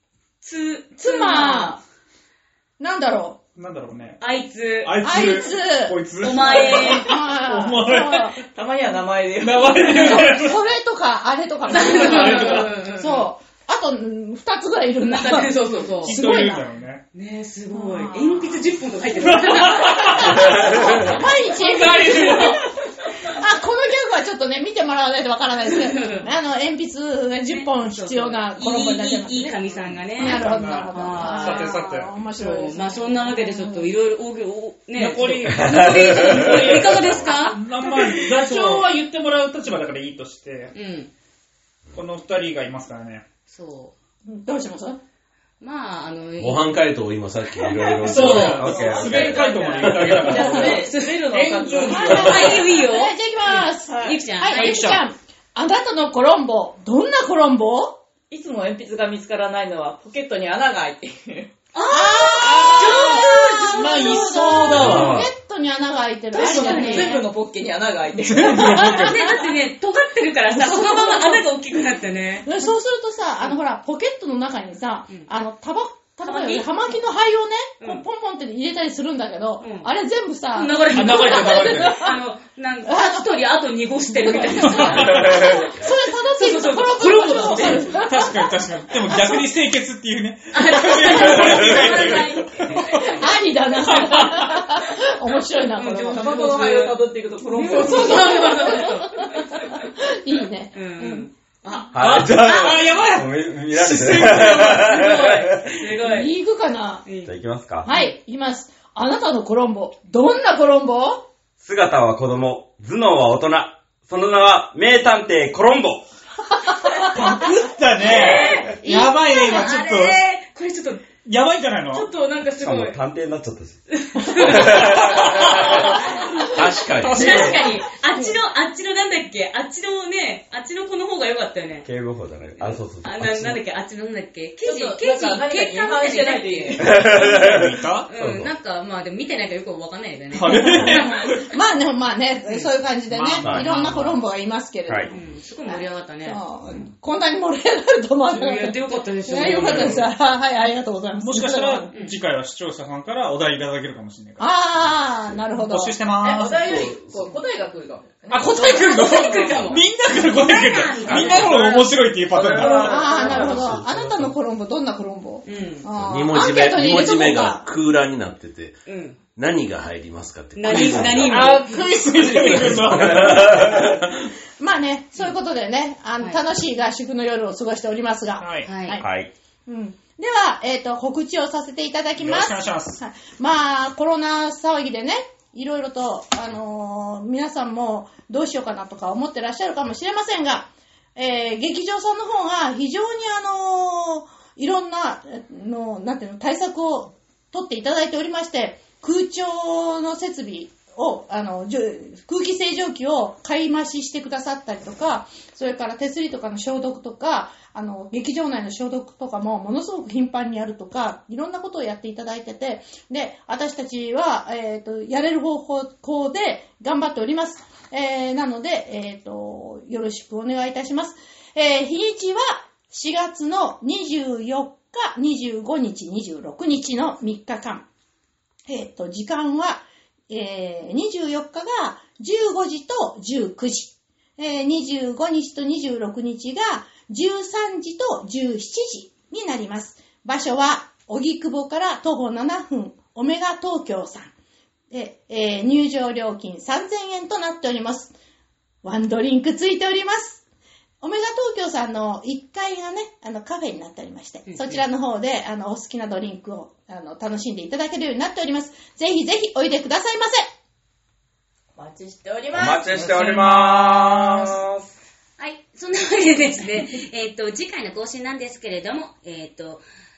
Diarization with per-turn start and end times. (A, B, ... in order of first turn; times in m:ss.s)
0:00.4-0:01.8 A
0:01.0-0:01.8 B
0:02.8-0:03.4 B
0:03.6-0:04.2 C
0:04.2-0:05.2 A
0:04.8-0:08.4 C
0:05.0-0:08.4 B
0:06.2-0:07.1 A
0:08.4-0:10.2 D
0:09.4-0:10.6 C
0:09.9-0:16.7 B
0:11.7-0:13.3 A
0:11.9-0:12.7 C
0:15.0-0:16.2 A
0:16.0-0:17.0 C
0:17.1-0:21.2 A
0:17.7-0:18.6 B
0:19.2-0:22.7 C
0:20.0-0:22.7 B
0:22.2-0:22.5 A
0:23.2-0:29.6 B
0:25.6-0:26.3 A
0:27.5-0:31.8 A
0:29.8-0:32.2 C
0:30.2-0:33.9 B
0:32.3-0:38.9 A
0:35.0-0:40.7 C
0:35.5-0:37.2 E
0:40.7-0:41.1 A
0:41.9-0:43.2 C
0:43.5-0:43.9 A
0:44.2-0:45.0 B
0:45.6-0:46.7 A
0:46.4-0:48.7 F
0:47.7-0:55.0 A
0:48.0-0:52.5 C
0:48.2-0:49.5 E
0:48.5-0:52.6 D
0:51.8-0:58.0 B
0:53.9-0:54.2 D
0:54.5-0:55.0 C
0:58.3-1:01.5 D
1:01.7-1:05.1 A
1:01.9-1:07.2 B
1:02.4-1:05.2 C
1:04.7-1:05.3 E
1:06.3-1:07.3 A
1:06.3-1:09.0 D
1:08.3-1:09.2 C
1:08.6-1:09.1 B
1:08.7-1:12.5 A
1:10.5-1:11.5 B
1:12.4-1:22.0 B
1:16.2-1:16.7 A
1:17.8-1:18.0 A
1:19.6-1:19.9 A
1:20.5-1:28.0 A
1:20.9-1:22.0 C
1:22.9-1:23.3 B
1:24.2-1:29.4 B
1:24.6-1:25.3 C
1:27.6-1:33.2 C
1:30.5-1:33.3 A
1:33.1-1:36.4 B
1:33.8-1:34.6 C
1:35.7-1:43.0 A
1:36.1-1:38.6 D
1:37.6-1:41.3 B
1:41.7-1:41.9 D
1:41.9-1:45.5 C
1:41.9-1:45.8 E
1:44.7-1:46.3 A
1:45.9-1:47.0 B
1:47.1-1:47.4 A
1:47.2-1:47.9 E
1:47.8-1:51.2 B
1:47.9-1:48.2 A
1:51.6-1:56.0 E
1:57.0-2:00.2 C
1:58.0-2:01.0 A
2:01.2-2:02.1 C
2:01.9-2:03.0 A
2:02.6-2:03.8 E
2:04.0-2:11.9 A
2:04.4-2:06.0 E
2:05.6-2:06.0 F
2:06.5-2:07.7 F
2:07.0-2:07.7 C
2:11.8-2:13.6 E
2:12.6-2:17.0 A
2:14.6-2:17.1 D
2:16.8-2:18.5 E
2:17.0-2:18.1 C
2:18.1-2:21.3 A
2:20.3-2:21.4 C
2:20.5-2:31.9 B
2:23.1-2:24.2 C
2:23.4-2:23.9 E
2:25.1-2:26.9 A
2:28.3-2:30.1 A
2:29.4-2:29.9 C
2:31.2-2:34.4 C
2:34.4-2:36.0 B
2:35.5-2:36.7 C
2:36.2-2:39.6 D
2:36.5-2:37.4 F
2:38.3-2:43.1 C
2:38.5-2:42.1 A
2:42.3-2:43.8 D
2:42.6-2:43.4 A
2:42.7-2:47.7 B
2:43.1-2:44.3 F
2:45.4-2:45.9 A
2:46.0-2:48.8 F
2:48.9-2:49.2 A
2:49.4-2:53.8 F
2:50.6-2:51.9 A
2:50.7-2:54.0 C
2:52.8-2:54.0 E
2:54.6-2:59.1 B
2:58.4-2:58.7 C
2:58.6-2:59.0 A
2:59.0-2:59.3 E
2:59.7-3:47.8 B
3:02.2-3:03.0 C
3:48.7-4:04.3 B
4:04.9-4:08.1 B
4:08.8-4:10.4 B
4:11.0-4:20.5 B
4:14.5-4:14.8 A
4:21.8-4:23.1 D
4:22.5-4:24.9 E
4:22.8-4:24.5 C
4:25.4-4:29.8 A